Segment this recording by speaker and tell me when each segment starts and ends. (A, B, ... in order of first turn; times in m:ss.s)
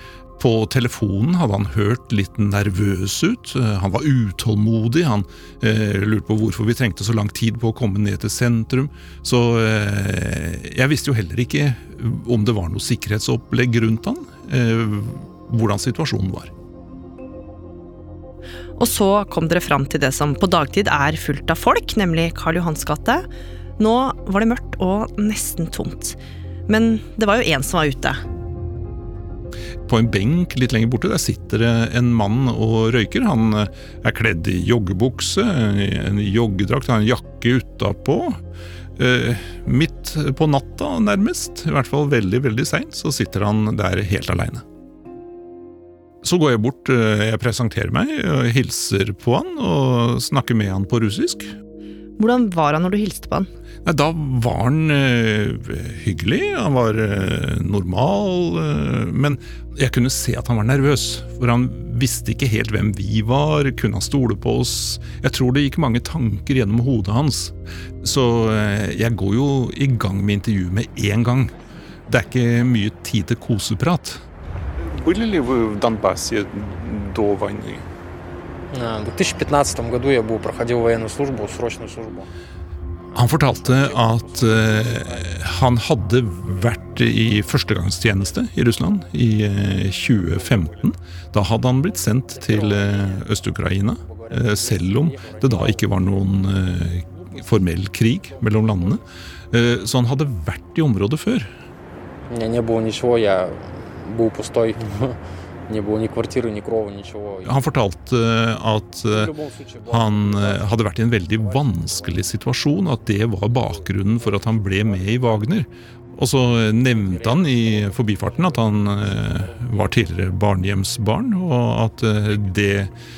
0:00.4-0:16.5 A
0:18.8-0:23.2 B
0:23.8-0:28.2 B
0:29.8-0:38.4 A
0:39.0-0:44.6 A
0:46.2-0:51.5 A
0:52.2-0:53.5 B
0:53.8-1:11.5 A
1:12.1-1:14.2 A
1:14.9-1:17.9 A
1:18.7-1:22.3 C
1:23.1-1:30.9 C
1:23.1-1:41.5 A
1:31.6-1:39.0 C
1:39.6-1:39.9 C
1:42.3-1:47.7 C
1:47.4-1:49.3 A
1:49.1-1:55.7 C
1:49.9-2:02.9 A
1:56.6-2:00.4 C
2:02.2-2:02.9 C